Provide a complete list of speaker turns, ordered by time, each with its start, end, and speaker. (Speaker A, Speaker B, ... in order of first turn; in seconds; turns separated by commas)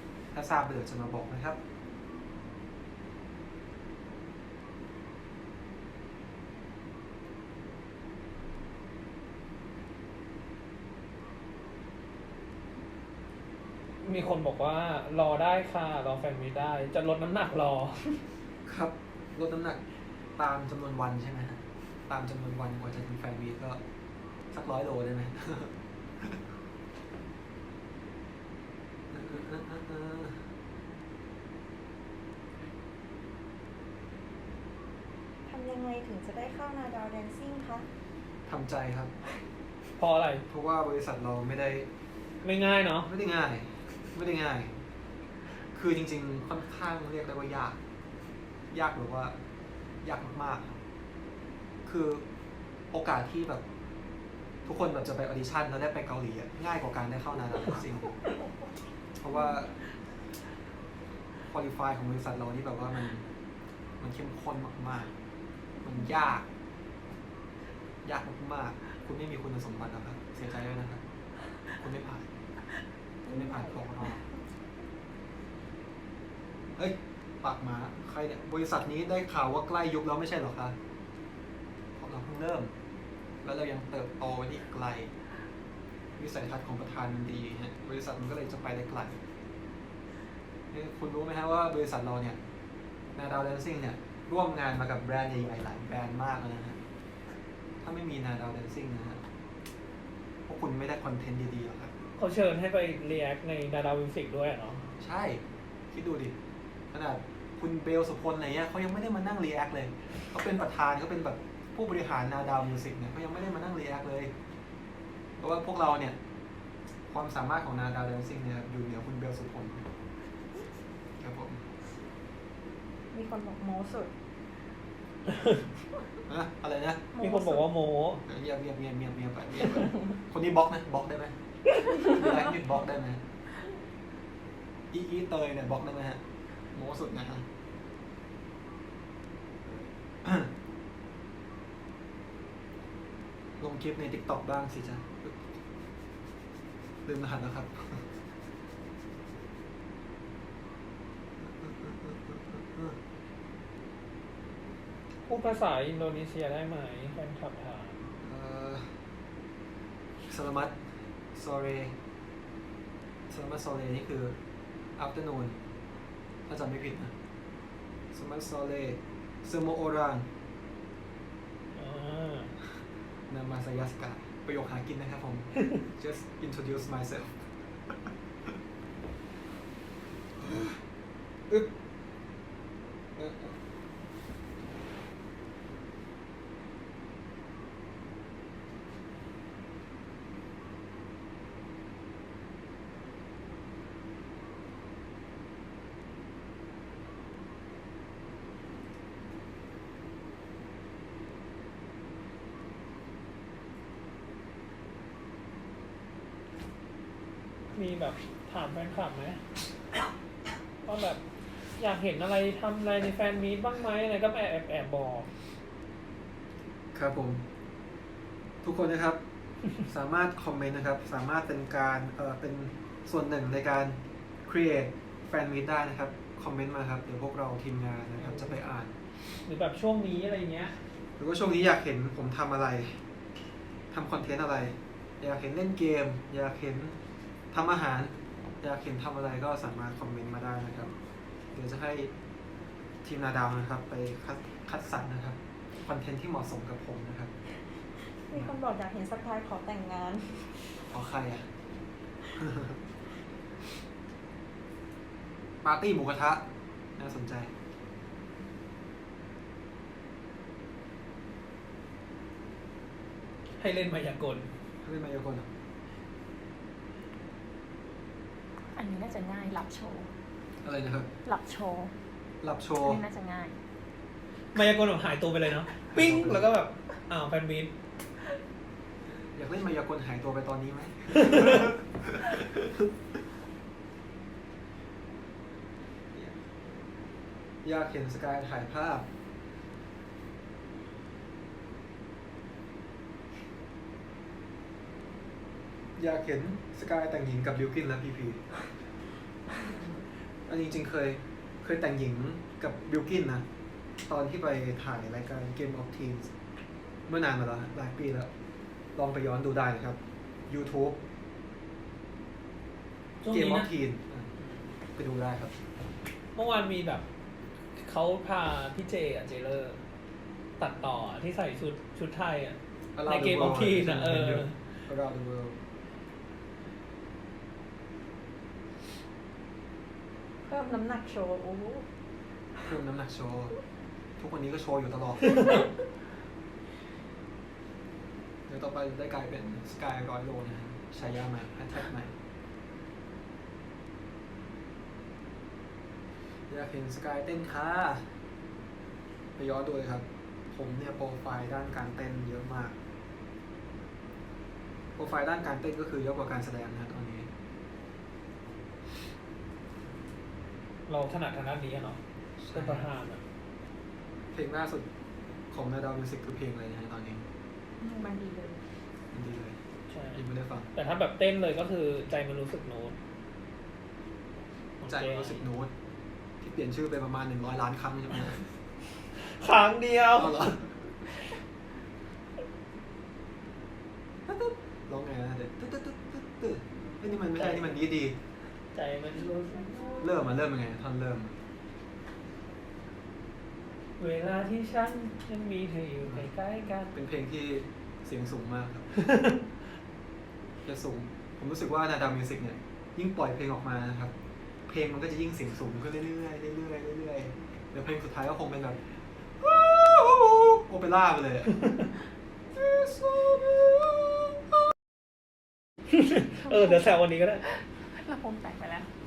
Speaker A: 0.3-1.6, Speaker B: 14.0-18.2, Speaker A: 18.6-19.8, Speaker A: 20.4-23.8, Speaker A: 24.5-26.4, Speaker A: 29.1-30.4, Speaker C: 35.5-37.9, Speaker A: 38.5-39.1, Speaker B: 40.0-40.5, Speaker A: 40.5-41.9, Speaker B: 42.4-43.1, Speaker A: 43.0-44.7, Speaker A: 45.7-47.8, Speaker A: 48.7-49.4, Speaker A: 50.0-50.7, Speaker A: 51.9-52.3, Speaker A: 52.9-53.6, Speaker A: 54.6-58.2, Speaker A: 59.2-59.7, Speaker A: 61.5-63.3, Speaker A: 64.0-65.1, Speaker A: 65.8-66.5, Speaker A: 68.0-71.0, Speaker A: 71.7-72.3, Speaker C: 73.3-73.9, Speaker A: 73.3-74.2, Speaker A: 76.8-80.8, Speaker A: 82.0-82.7, Speaker A: 83.4-85.1, Speaker A: 86.2-89.2, Speaker A: 90.7-92.4, Speaker A: 93.2-96.8, Speaker A: 97.8-99.2, Speaker A: 100.5-101.9, Speaker B: 102.2-104.9, Speaker A: 105.0-106.4, Speaker A: 106.9-114.3, Speaker A: 115.4-116.2, Speaker A: 117.1-119.9, Speaker A: 121.2-121.7, Speaker C: 123.1-124.1, Speaker A: 126.3-127.0, Speaker D: 127.2-127.6, Speaker B: 127.2-128.2, Speaker A: 128.3-133.2, Speaker A: 134.9-136.2, Speaker A: 136.7-137.5, Speaker A: 139.7-140.5, Speaker A: 143.6-145.4, Speaker A: 147.1-148.1, Speaker A: 151.4-153.0, Speaker B: 155.3-158.0, Speaker A: 158.2-159.0, Speaker A: 160.3-161.9, Speaker A: 163.3-164.4, Speaker A: 165.0-165.6, Speaker A: 166.5-167.1, Speaker A: 168.1-170.3, Speaker B: 171.7-172.6, Speaker A: 173.3-177.9, Speaker A: 180.4-180.8, Speaker A: 183.2-183.6, Speaker B: 207.7-209.5, Speaker B: 210.8-211.2, Speaker B: 211.8-215.3, Speaker A: 216.9-217.4, Speaker A: 218.6-219.2, Speaker A: 219.8-228.9, Speaker B: 228.2-228.6, Speaker B: 229.4-230.8, Speaker A: 231.2-233.0, Speaker A: 233.9-237.0, Speaker A: 237.5-240.9, Speaker A: 241.5-242.1, Speaker A: 243.0-247.3, Speaker C: 247.9-250.7, Speaker A: 250.9-251.5, Speaker A: 252.3-252.8, Speaker A: 255.6-257.5, Speaker B: 263.5-264.5, Speaker A: 264.8-265.5, Speaker D: 268.7-270.1, Speaker A: 270.6-271.1, Speaker D: 271.2-271.9, Speaker A: 272.4-273.0, Speaker D: 272.8-273.6, Speaker B: 274.5-277.7, Speaker A: 275.9-276.4, Speaker A: 279.3-282.9, Speaker A: 287.6-289.1, Speaker A: 296.0-298.5, Speaker A: 300.5-303.5, Speaker A: 304.0-306.3, Speaker A: 307.1-308.3, Speaker A: 308.9-311.0, Speaker B: 313.2-313.7, Speaker A: 313.3-314.3, Speaker A: 314.9-315.6, Speaker B: 316.4-317.1, Speaker B: 317.7-319.8, Speaker B: 320.6-324.6, Speaker A: 322.9-325.6, Speaker C: 330.5-331.9, Speaker A: 332.6-333.5, Speaker A: 334.2-335.5, Speaker A: 338.5-342.2, Speaker A: 346.5-348.1, Speaker A: 349.4-352.8, Speaker A: 355.0-357.3, Speaker B: 360.9-362.0, Speaker A: 362.4-362.9, Speaker B: 362.5-363.2, Speaker A: 364.3-364.9, Speaker A: 365.5-367.3, Speaker C: 367.8-368.6, Speaker A: 369.1-369.6, Speaker B: 369.9-370.2, Speaker A: 370.1-370.7, Speaker B: 370.7-373.0, Speaker B: 374.8-375.4, Speaker A: 374.8-375.7, Speaker A: 376.4-378.4, Speaker B: 379.1-380.6, Speaker A: 380.1-380.9, Speaker A: 384.2-388.2, Speaker B: 387.4-387.6, Speaker B: 388.7-390.3, Speaker A: 390.0-391.3, Speaker B: 394.0-396.9, Speaker A: 396.9-398.9, Speaker A: 400.6-404.1, Speaker A: 404.7-408.8, Speaker A: 409.4-411.7, Speaker A: 412.5-414.4, Speaker B: 415.9-417.4, Speaker D: 416.4-418.9